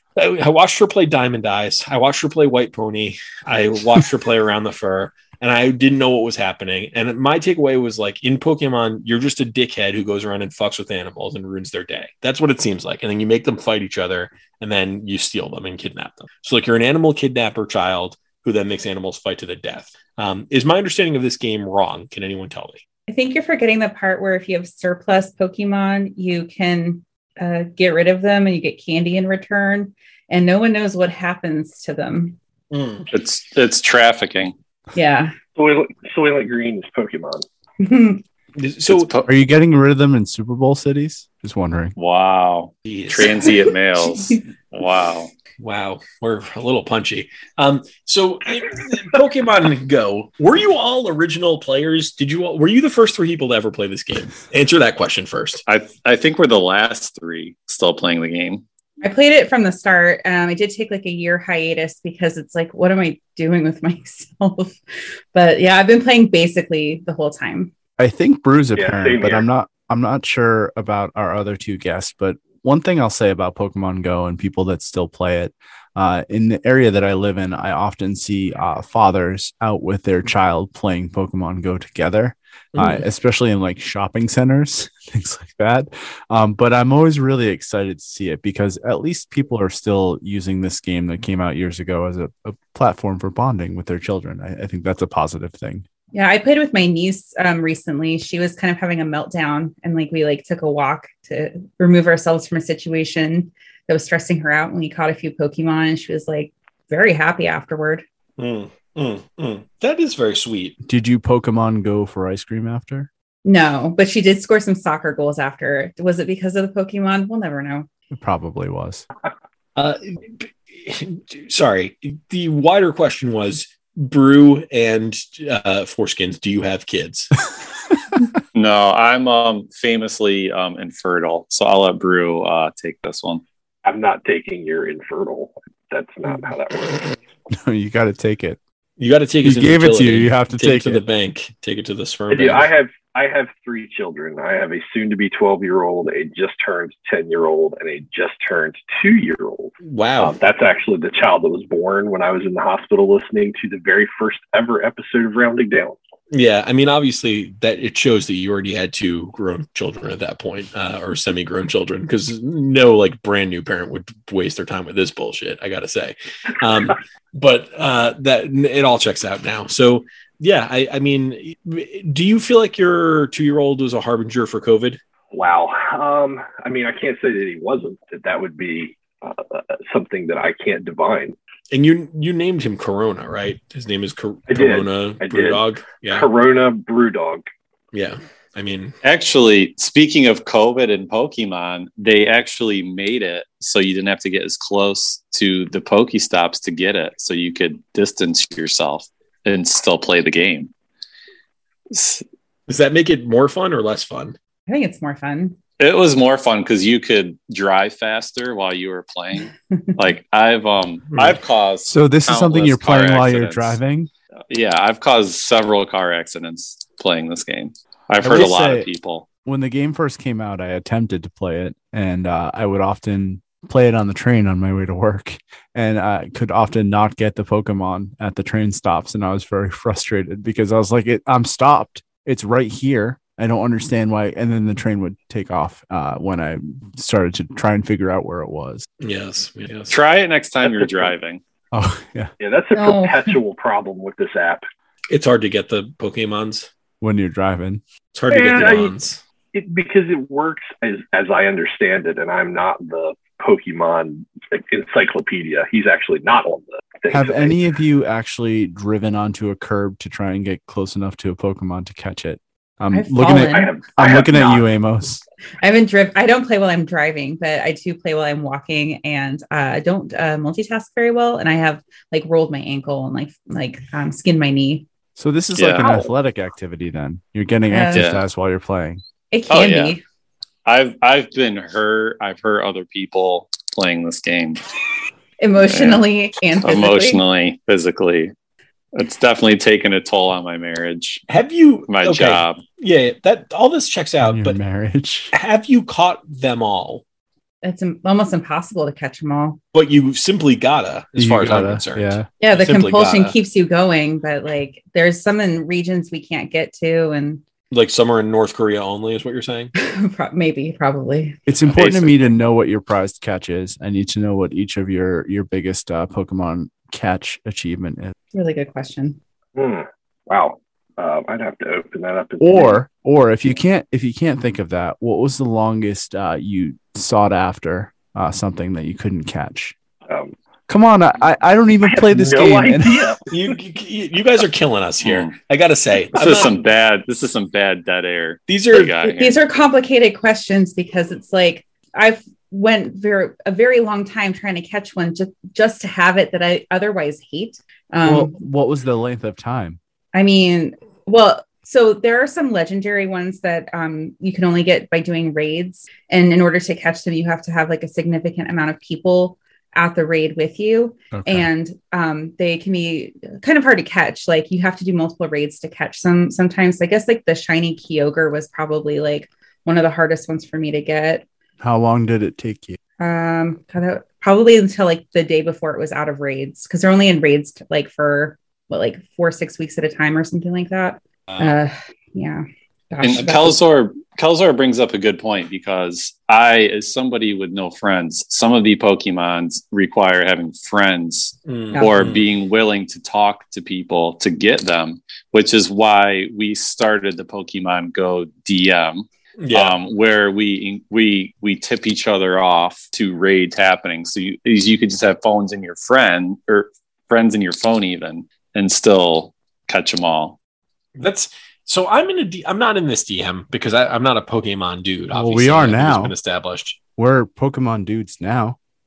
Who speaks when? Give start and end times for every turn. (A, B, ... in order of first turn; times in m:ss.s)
0:00.2-0:22.8 A
0:23.1-0:32.4 B
0:32.7-0:33.1 A
0:33.1-0:34.6 C
0:34.9-0:35.4 B
0:35.6-0:37.4 D
0:37.8-0:38.2 B
0:38.6-0:39.2 A
0:38.9-0:39.2 C
0:39.2-0:41.9 E
0:42.0-0:45.3 C
0:42.9-0:44.3 A
0:45.6-0:55.6 A
0:55.7-0:58.6 C
0:59.0-1:04.8 B
1:05.3-1:07.7 B
1:08.0-1:35.8 E
1:08.8-1:09.4 D
1:22.8-1:23.0 A
1:36.1-1:48.0 B
1:48.4-1:50.8 A
1:50.8-1:53.1 E
1:53.4-1:57.9 B
1:58.1-1:59.0 E
1:59.8-2:07.3 A
2:08.5-2:13.4 C
2:13.8-2:17.1 D
2:17.5-2:18.6 E
2:19.0-2:22.7 A
2:19.4-2:21.0 E
2:22.3-2:36.0 D
2:29.8-2:30.4 A
2:36.3-2:55.0 A
2:55.3-3:01.4 D
3:01.7-3:06.3 A
3:04.5-3:07.4 D
3:07.9-3:09.0 A
3:09.0-3:20.7 C
3:21.9-3:22.2 C
3:22.7-3:24.4 A
3:24.7-3:25.6 B
3:25.8-3:33.8 C
3:31.1-3:31.4 A
3:31.9-3:34.1 E
3:34.5-3:39.3 C
3:38.2-3:38.9 E
3:39.4-3:58.8 E
3:59.0-4:00.0 A
3:59.9-4:01.4 C
4:00.6-4:01.1 D
4:01.7-4:02.3 E
4:02.4-4:04.6 D
4:02.7-4:03.3 B
4:05.1-4:06.7 A
4:07.0-4:07.8 E
4:08.1-4:09.2 A
4:08.3-4:08.9 D
4:09.5-4:17.6 D
4:17.1-4:25.2 E
4:22.9-4:23.8 B
4:23.3-4:24.7 D
4:25.6-4:34.8 B
4:35.2-4:39.0 E
4:35.6-4:35.9 C
4:37.7-4:38.1 B
4:37.9-4:38.2 C
4:39.3-4:40.0 B
4:39.5-4:40.0 C
4:40.7-4:44.6 C
4:45.4-4:47.2 B
4:45.6-4:46.1 C
4:46.6-4:48.3 C
4:48.9-4:51.2 C
4:51.3-4:54.6 A
4:51.9-4:52.6 C
4:54.2-4:55.3 E
4:55.3-4:57.0 A
4:57.6-4:59.6 B
4:59.7-5:03.3 A
5:01.2-5:02.3 E
5:02.4-5:07.4 B
5:07.7-5:09.7 A
5:09.8-5:11.4 B
5:11.4-5:18.2 E
5:11.6-5:12.2 A
5:18.3-5:19.2 B
5:19.6-5:22.8 D
5:22.4-5:29.8 E
5:30.1-5:30.3 D
5:30.7-5:33.0 E
5:31.8-5:33.5 D
5:33.3-5:36.6 A
5:35.0-5:35.4 C
5:36.1-5:39.4 C
5:38.5-5:38.9 A
5:39.1-5:48.3 B
5:48.0-5:49.8 E
5:50.1-6:11.2 B
6:01.1-6:01.5 E
6:11.6-6:12.8 E
6:13.0-6:23.6 B
6:21.3-6:21.6 A
6:23.0-6:50.4 C
6:31.4-6:32.2 A
6:39.4-6:39.8 A
6:51.0-6:56.8 A
6:55.1-6:56.1 E
6:57.0-6:58.6 E